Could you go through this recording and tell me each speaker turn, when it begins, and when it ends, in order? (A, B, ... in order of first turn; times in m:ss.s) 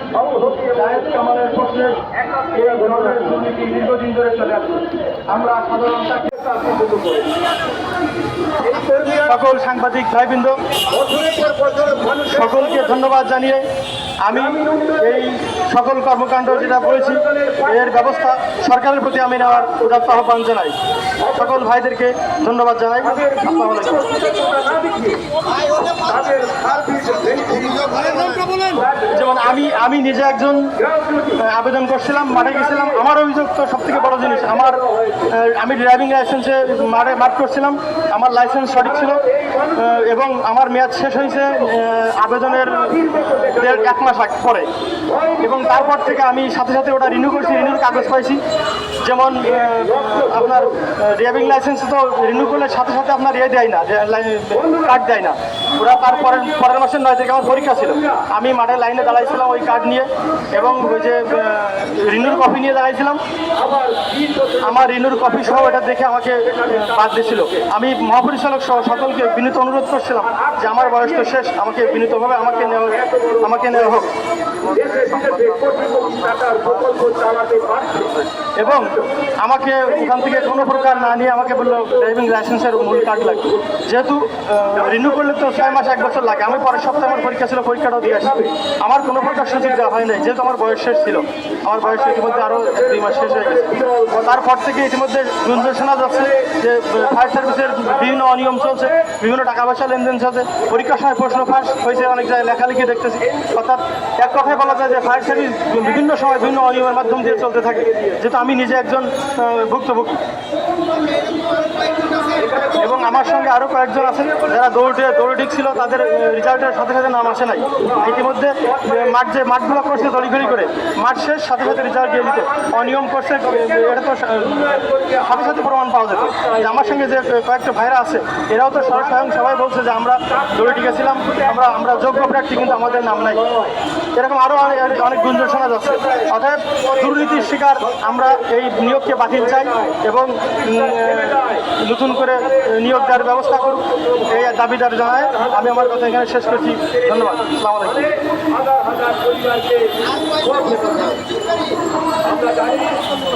0:00.2-0:00.8 A
0:00.4-0:06.5 B
0:02.5-0:02.9 A
0:06.5-0:07.3 A
0:08.6-0:09.3 A
0:09.1-0:10.6 B
0:10.9-0:12.4 A
0:12.2-0:13.7 B
0:14.2-0:20.7 B
0:14.5-0:15.0 A
0:16.7-0:17.9 A
0:21.3-0:24.3 B
0:23.2-0:23.4 A
0:24.0-0:29.1 A
0:29.0-0:30.8 B
0:30.9-0:31.3 A
0:31.3-0:44.7 B
0:34.2-0:35.3 A
0:39.0-0:39.9 A
0:42.9-0:43.7 A
0:45.1-0:45.4 A
0:45.4-0:48.4 B
0:49.0-1:03.2 B
0:49.6-0:50.7 A
0:57.8-0:58.2 A
1:03.6-1:04.7 A
1:04.6-1:14.1 B
1:06.5-1:07.6 A
1:10.4-1:10.7 A
1:12.1-1:14.0 A
1:14.6-1:18.2 A
1:18.6-1:50.2 B
1:20.1-1:21.1 A
1:21.7-1:22.0 A
1:25.3-1:26.2 A
1:28.2-1:28.5 A
1:32.0-1:34.2 A
1:52.2-1:52.9 A
1:52.7-2:13.5 B
1:57.8-1:58.0 A
2:01.9-2:02.7 A
2:04.5-2:05.4 A
2:06.3-2:06.6 A
2:11.2-2:11.5 A
2:12.3-2:13.7 A
2:14.1-2:28.1 B
2:15.8-2:16.2 A
2:19.5-2:19.9 A
2:20.6-2:21.6 A
2:22.4-2:24.2 A
2:28.4-2:31.4 A
2:32.2-2:33.2 A